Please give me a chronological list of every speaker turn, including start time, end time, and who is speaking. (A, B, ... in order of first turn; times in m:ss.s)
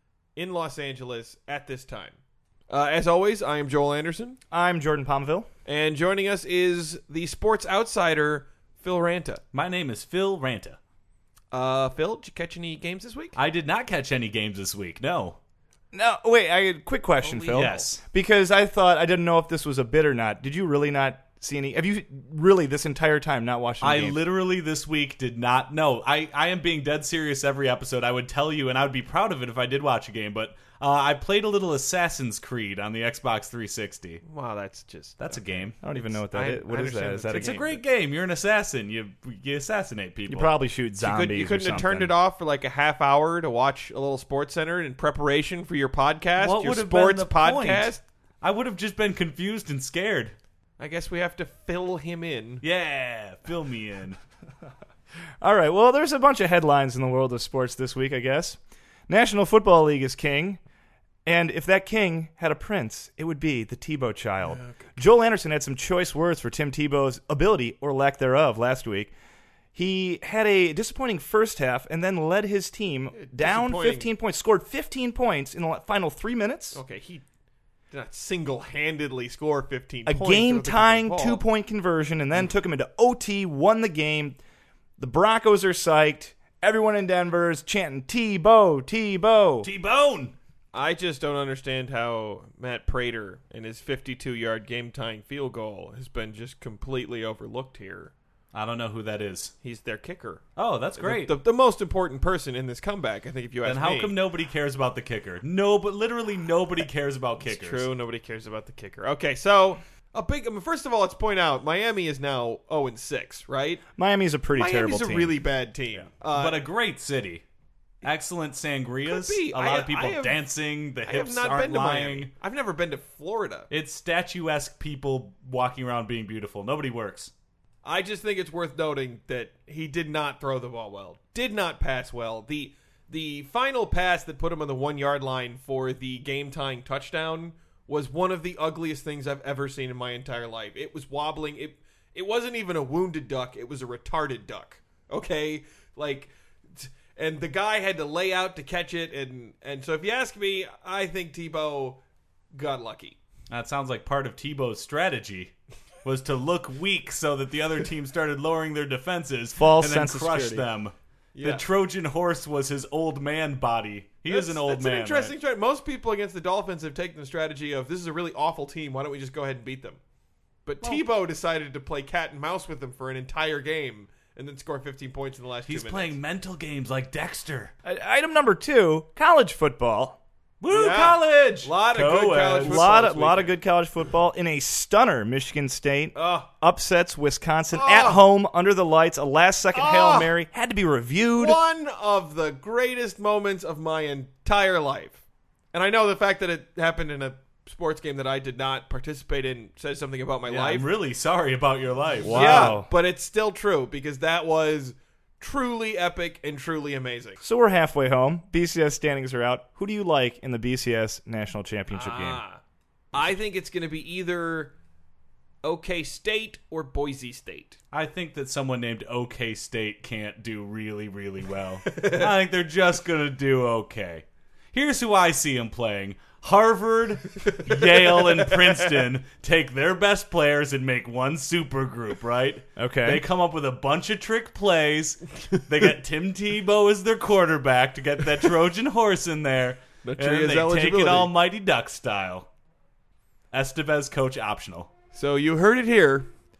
0:00.4-0:04.4 A
0:04.5-0:05.5 B
0:05.6-0:09.4 A
0:09.5-0:10.8 C
0:11.5-0:13.4 A
0:13.4-0:15.4 C
0:15.9-0:24.2 B
0:17.2-0:17.9 A
0:17.5-0:18.0 C
0:23.8-0:34.2 C
0:34.2-0:37.8 A
0:35.2-0:35.8 C
0:35.8-0:37.6 B
0:37.3-0:40.5 C
0:40.3-0:42.1 B
0:41.0-0:48.0 A
0:46.4-0:50.3 C
0:50.8-0:52.6 A
0:52.6-0:54.2 C
0:55.4-1:00.6 B
1:01.2-1:09.1 B
1:04.4-1:04.8 A
1:09.7-1:16.8 B
1:13.1-1:14.1 A
1:16.7-1:17.2 A
1:17.9-1:21.4 A
1:20.1-1:24.4 B
1:25.0-1:29.7 B
1:29.6-1:30.3 C
1:30.7-1:38.1 A
1:38.5-1:39.5 C
1:39.6-1:40.4 A
1:40.6-1:41.4 C
1:41.0-1:44.2 A
1:43.6-1:47.9 C
1:47.4-1:53.8 A
1:54.0-1:55.4 B
1:54.6-1:56.6 A
1:56.0-1:57.4 C
1:58.0-2:02.3 C
1:59.0-2:00.4 A
2:01.0-2:03.7 A
2:03.7-2:07.3 C
2:07.8-2:32.0 A
2:32.5-2:33.2 A
2:33.5-2:45.3 C
2:39.5-2:40.7 B
2:41.3-2:41.6 A
2:44.3-2:50.0 A
2:50.6-2:56.2 A
2:55.7-2:57.7 C
2:57.8-3:00.2 B
3:00.6-3:02.8 C
3:00.7-3:03.6 A
3:02.6-3:11.6 B
3:06.1-3:06.5 A
3:07.7-3:08.2 A
3:09.7-3:10.3 A
3:11.4-3:15.2 A
3:15.7-3:20.8 A
3:20.5-3:22.8 C
3:22.2-3:22.9 B
3:22.2-3:27.4 A
3:27.4-3:32.4 B
3:31.9-3:32.6 A
3:33.1-3:34.7 A
3:35.6-3:37.8 A
3:37.9-4:02.5 C
3:41.8-3:42.3 A
3:47.4-3:48.7 A
3:52.8-3:53.2 B
4:00.0-4:01.3 A
4:03.5-4:04.9 C
4:05.1-4:06.3 A